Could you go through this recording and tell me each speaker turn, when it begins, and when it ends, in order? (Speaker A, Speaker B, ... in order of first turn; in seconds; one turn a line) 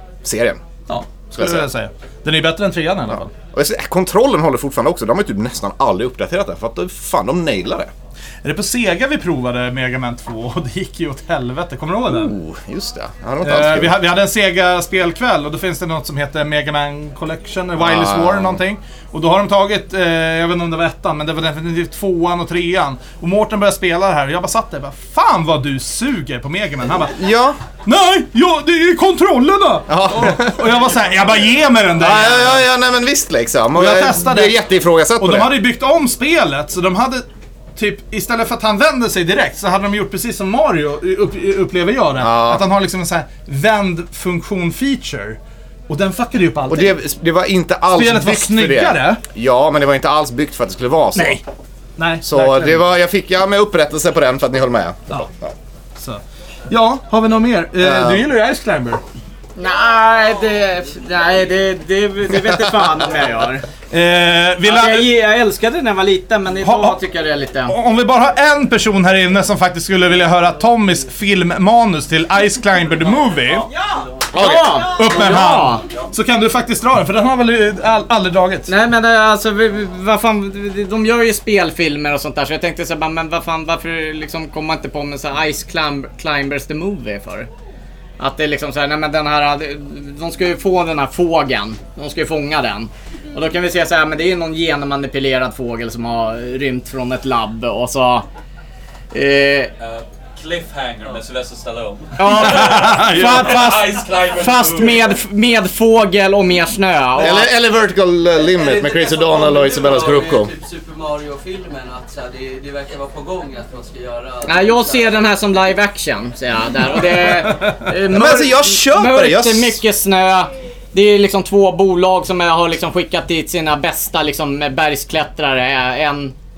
Speaker A: 0.2-0.6
Speaker B: 0.9-3.3
Speaker A: 1.3-1.7
Speaker A: 3.5-7.9
Speaker B: 8.4-12.3
Speaker A: 12.1-14.0
Speaker B: 13.4-27.1
Speaker A: 17.8-18.6
Speaker A: 27.1-27.6
Speaker B: 27.9-32.7
Speaker A: 29.9-30.7
Speaker A: 32.0-35.5
Speaker B: 33.7-34.6
Speaker B: 35.2-37.2
Speaker B: 37.8-45.4
Speaker A: 42.2-42.6
Speaker B: 45.9-47.0
Speaker A: 46.7-51.4
Speaker B: 47.9-49.2
Speaker B: 51.1-51.4
Speaker B: 52.0-52.8
Speaker A: 52.2-55.5
Speaker B: 56.0-59.0
Speaker A: 57.8-58.2
Speaker C: 59.6-63.6
Speaker B: 63.9-65.1
Speaker C: 64.6-67.7
Speaker B: 66.6-67.0
Speaker B: 67.7-73.7
Speaker A: 74.3-75.0
Speaker C: 74.3-75.8
Speaker B: 74.8-78.7
Speaker C: 78.7-87.5
Speaker C: 88.2-98.2
Speaker C: 99.1-99.7
Speaker D: 99.8-105.1
Speaker C: 102.2-103.8
Speaker B: 102.3-103.9
Speaker C: 104.3-107.5
Speaker A: 107.2-110.5
Speaker E: 108.5-115.1
Speaker C: 114.5-126.3
Speaker A: 118.1-119.8